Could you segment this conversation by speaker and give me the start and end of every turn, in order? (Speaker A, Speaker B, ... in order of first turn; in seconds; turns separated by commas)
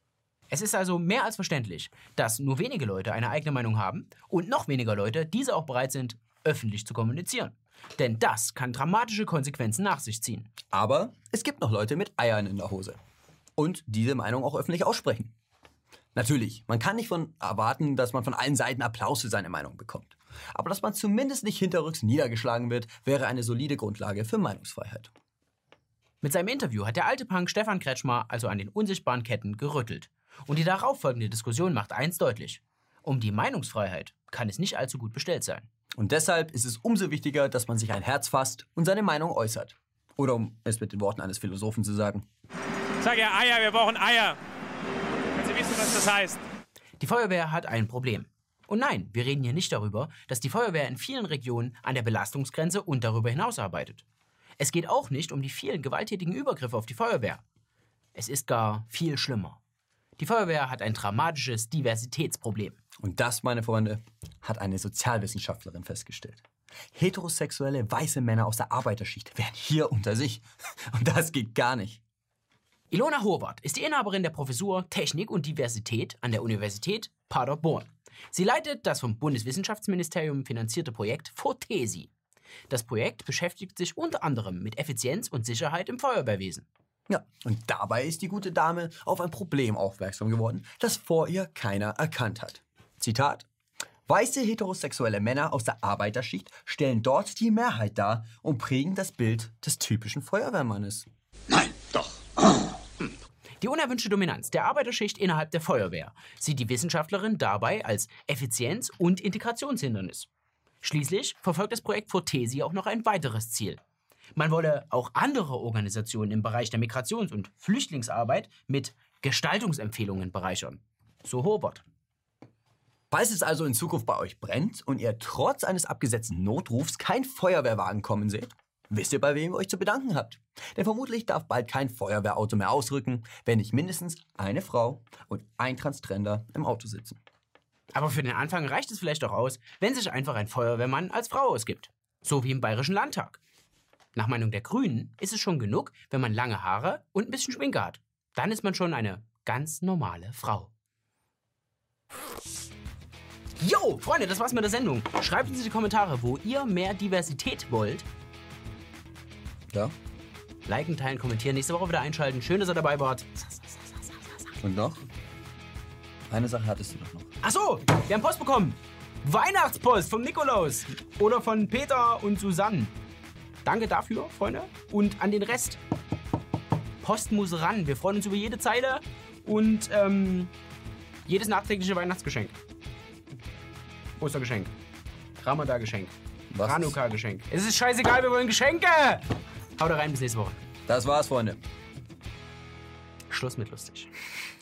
Speaker A: 0.5-10.5, Speaker B: 10.7-13.0, Speaker B: 13.6-15.3, Speaker B: 16.1-25.1, Speaker A: 26.2-35.7, Speaker B: 36.0-42.2, Speaker C: 43.0-44.4, Speaker C: 45.4-46.4, Speaker A: 47.0-54.0, Speaker A: 54.6-57.4, Speaker A: 58.1-59.6, Speaker A: 60.2-62.8, Speaker B: 63.0-66.4, Speaker B: 66.9-72.0, Speaker A: 72.9-82.1, Speaker A: 82.7-86.7, Speaker B: 87.1-93.5, Speaker B: 94.1-101.1, Speaker A: 103.6-110.3, Speaker A: 110.8-113.8, Speaker A: 114.3-121.8, Speaker B: 123.1-137.2, Speaker A: 137.9-143.4, Speaker A: 144.2-150.7, Speaker A: 153.6-158.1, Speaker A: 160.7-164.4, Speaker B: 164.6-165.0, Speaker B: 166.3-167.3, Speaker A: 167.4-172.9, Speaker A: 173.6-175.8, Speaker A: 177.0-180.5, Speaker A: 181.2-182.5, Speaker A: 184.2-184.7, Speaker A: 185.4-189.3, Speaker B: 186.5-187.0, Speaker A: 189.8-190.6, Speaker B: 190.9-191.6, Speaker A: 193.3-194.1